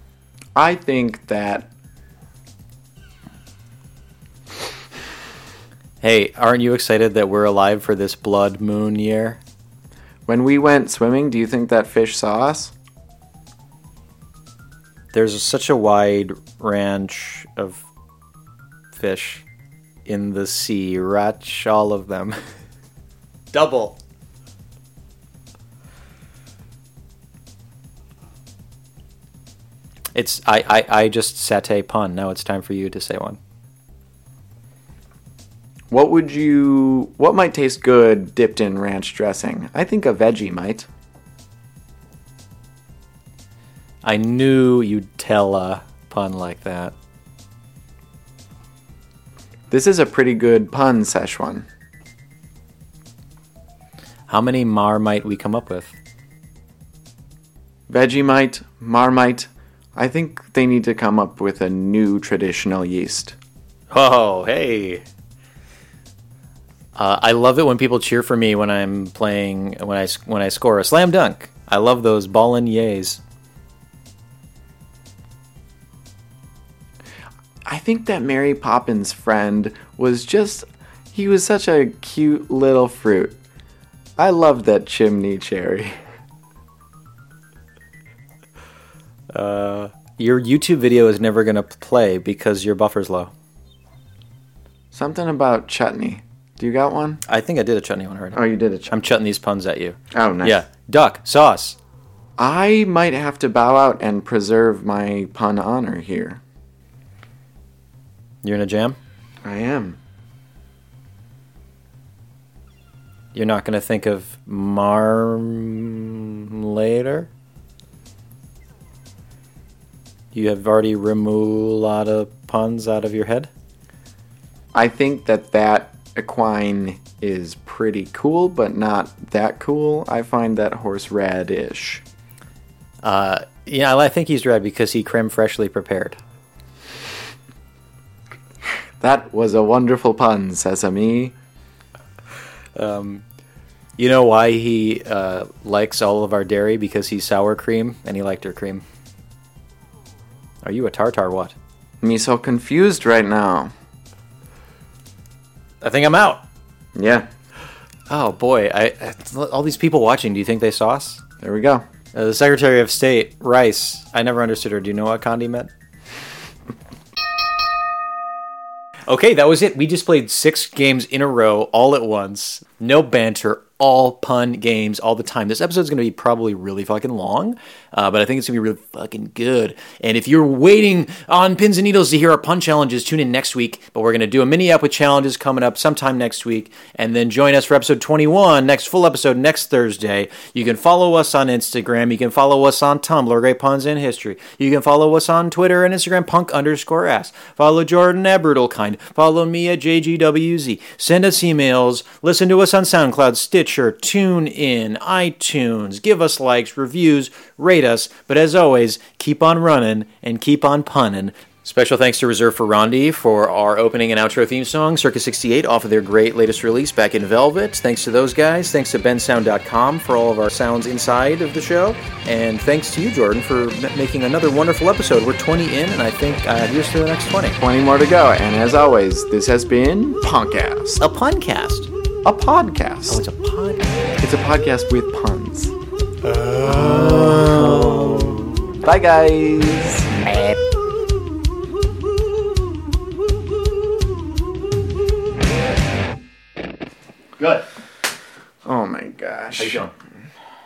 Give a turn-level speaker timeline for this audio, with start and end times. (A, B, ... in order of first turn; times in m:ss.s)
0:00.5-0:01.7 A
0:06.0-0:09.4 B
0:10.3-0:12.7 A
0:15.1-0:17.8 B
0:18.9-0:19.4 B
0:20.0-0:22.4 B
0:23.5-0:24.0 B
0:30.1-0:33.4 B
0:35.9-0:40.9 A
0:44.0-0:46.9 B
0:49.7-0:51.7 A
0:54.3-0:55.9 B
0:57.9-1:03.4 A
1:03.9-1:05.0 B
1:06.9-1:13.2 B
1:17.6-1:23.4 A
1:24.2-1:26.0 A
1:29.3-1:33.3 B
1:34.9-1:37.2 A
1:37.2-1:41.8 B
1:38.3-1:38.9 A
1:40.1-1:40.6 A
1:42.4-1:46.4 A
1:48.4-1:49.0 B
1:49.4-1:50.0 A
1:53.3-1:57.3 B
2:00.3-2:03.5 B
2:04.7-2:12.0 A
2:13.0-2:16.2 B
2:19.0-2:21.3 A
2:22.7-2:23.2 B
2:24.0-2:28.8 B
2:30.6-2:31.5 B
2:32.0-2:33.7 A
2:35.8-2:36.4 B
2:36.9-2:37.3 A
2:38.1-2:41.2 B
2:41.4-2:41.8 A
2:42.1-2:45.7 B
2:49.1-3:47.6 B
3:47.6-3:51.0 A
3:51.0-3:51.9 B
3:52.2-3:53.2 A
3:53.1-3:53.9 B
3:54.2-3:55.7 A
3:56.2-3:58.7 B
3:56.5-4:00.1 A
4:00.2-4:00.6 B
4:07.4-4:07.6 B
4:08.6-4:09.9 A
4:09.6-4:09.9 B